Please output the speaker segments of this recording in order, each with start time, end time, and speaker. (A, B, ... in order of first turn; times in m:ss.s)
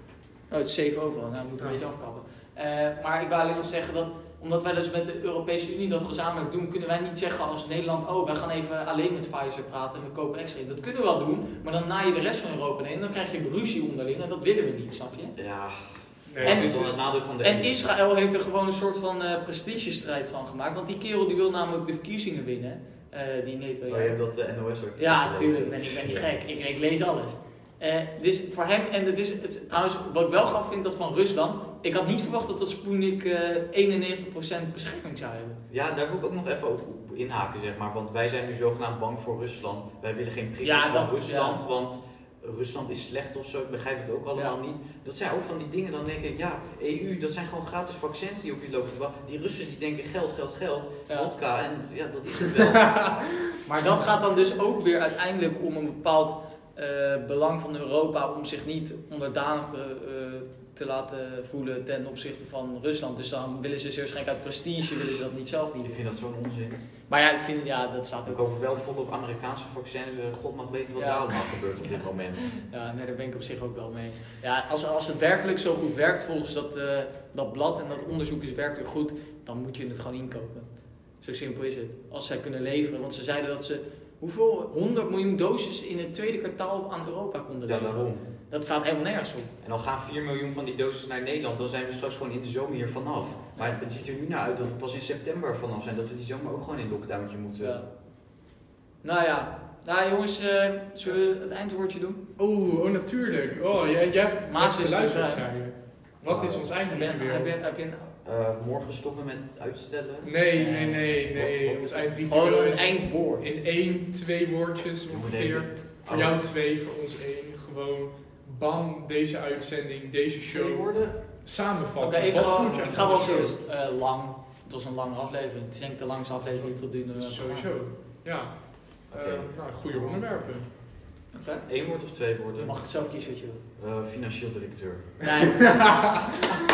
0:00.5-0:15.3 A
0:15.4-0:17.8 B
0:16.3-0:16.9 C
0:16.4-0:24.2 A
0:23.9-0:26.4 B
0:25.0-0:35.6 A
0:35.7-0:53.2 B
0:40.6-0:41.6 A
0:53.6-1:06.0 A
1:05.8-1:06.8 B
1:07.1-1:08.4 A
1:08.2-1:12.6 B
1:11.0-1:29.5 A
1:27.6-1:28.2 B
1:29.6-1:37.8 B
1:37.6-1:37.9 A
1:39.0-1:42.2 A
1:42.4-1:47.5 C
1:44.4-1:45.5 A
1:46.2-1:46.7 B
1:46.9-1:48.1 A
1:48.2-1:50.3 B
1:50.2-2:03.5 C
1:50.5-1:53.5 A
1:51.3-1:52.1 B
1:55.1-1:56.4 B
2:00.5-2:01.2 B
2:02.0-2:07.8 A
2:02.6-2:03.5 B
2:06.6-2:10.7 C
2:09.1-2:10.4 B
2:11.3-2:11.6 A
2:11.7-2:12.8 B
2:12.6-2:13.6 A
2:13.8-2:15.3 B
2:15.2-2:16.4 A